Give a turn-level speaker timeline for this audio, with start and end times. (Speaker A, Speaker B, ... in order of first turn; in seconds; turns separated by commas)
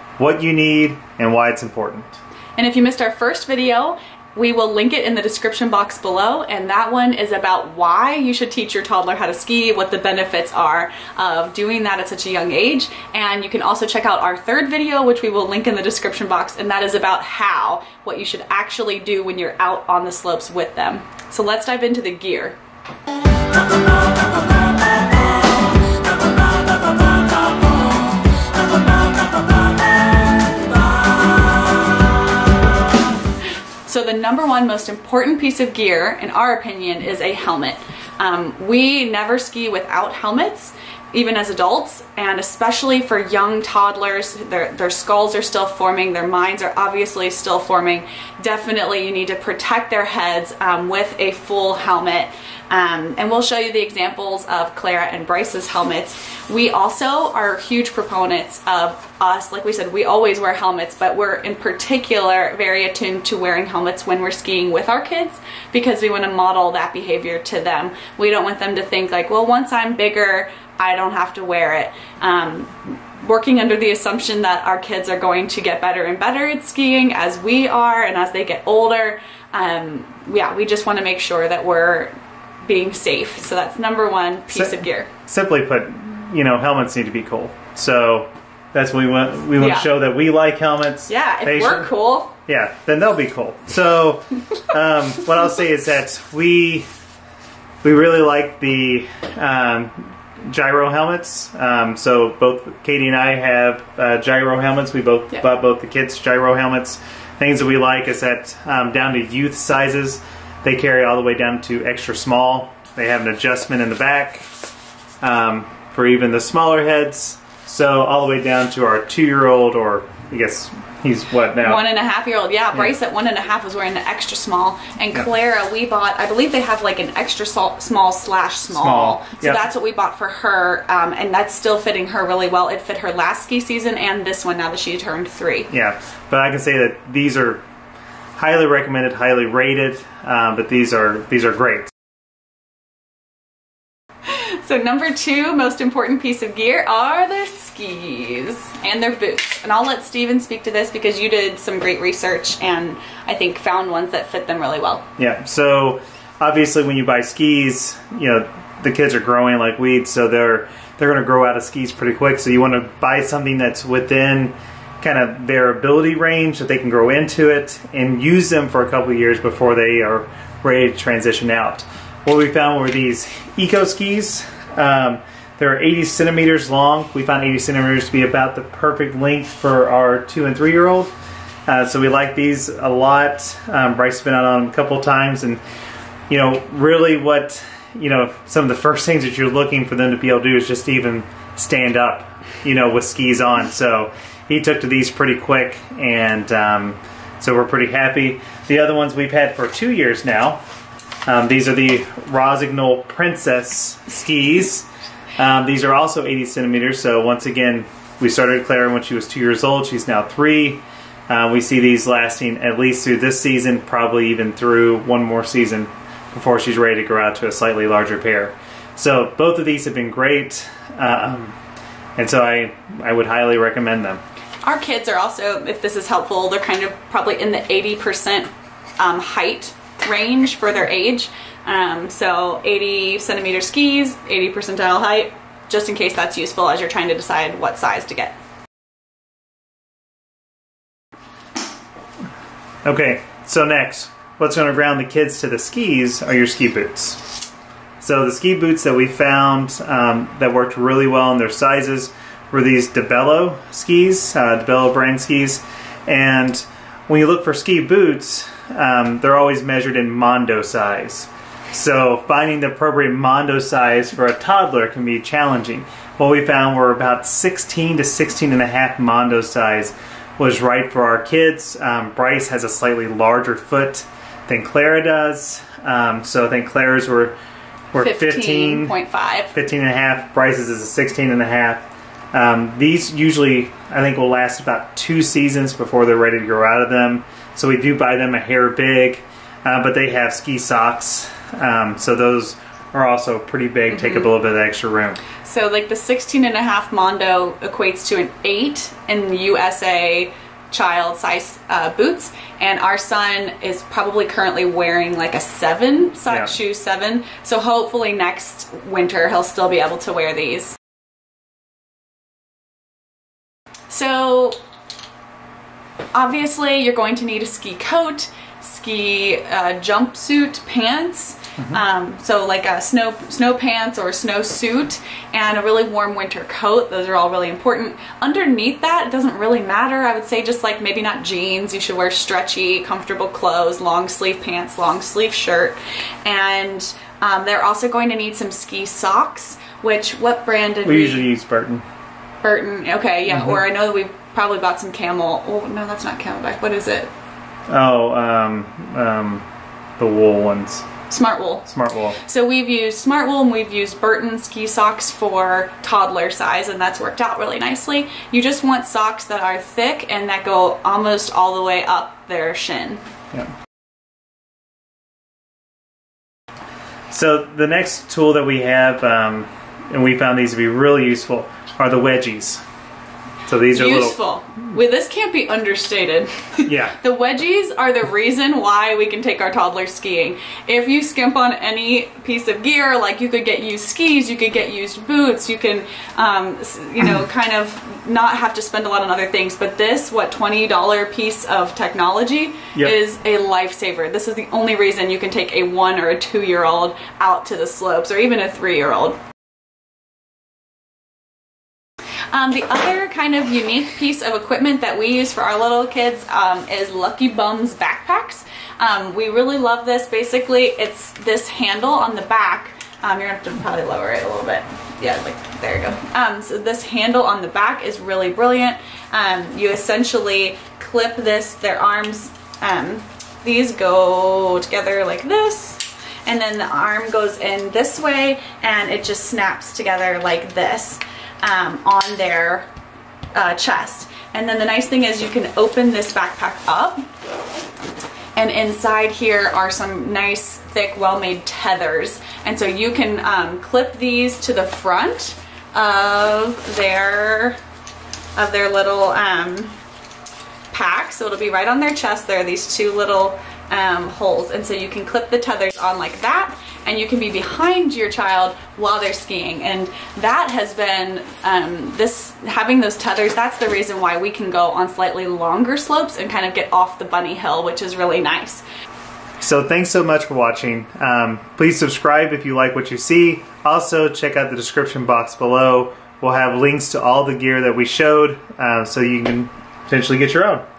Speaker A: 0.2-2.2, Speaker B: 2.6-22.6, Speaker B: 33.9-82.1, Speaker B: 82.7-85.1, Speaker A: 84.5-91.9, Speaker B: 89.6-89.9, Speaker B: 91.1-92.3, Speaker A: 92.5-96.9, Speaker A: 97.8-114.5, Speaker A: 115.2-121.9, Speaker B: 121.6-135.7, Speaker A: 128.7-129.7, Speaker A: 135.7-137.6, Speaker A: 138.4-141.9, Speaker B: 144.3-155.1, Speaker A: 155.2-181.1, Speaker A: 181.7-185.6, Speaker A: 186.3-200.6, Speaker A: 201.3-204.9, Speaker A: 205.4-221.6, Speaker A: 222.2-224.2, Speaker B: 224.6-238.4, Speaker A: 242.8-247.2, Speaker A: 248.0-277.4, Speaker A: 277.9-278.9, Speaker B: 278.0-279.5, Speaker A: 279.5-295.2, Speaker B: 293.9-294.3, Speaker B: 295.4-310.8, Speaker A: 306.3-306.5, Speaker B: 313.9-314.6, Speaker B: 316.1-341.3, Speaker A: 340.9-341.8, Speaker B: 342.4-347.1, Speaker A: 343.3-343.6, Speaker A: 347.7-349.4, Speaker A: 350.0-350.9, Speaker B: 351.1-351.7, Speaker A: 351.7-352.2, Speaker B: 352.2-363.0, Speaker A: 367.1-372.6, Speaker A: 373.5-374.1, Speaker B: 373.7-399.2, Speaker A: 376.7-377.0, Speaker B: 402.3-432.7, Speaker B: 433.4-437.0, Speaker B: 438.4-447.6, Speaker B: 448.4-449.7, Speaker B: 450.7-468.6, Speaker A: 469.4-480.6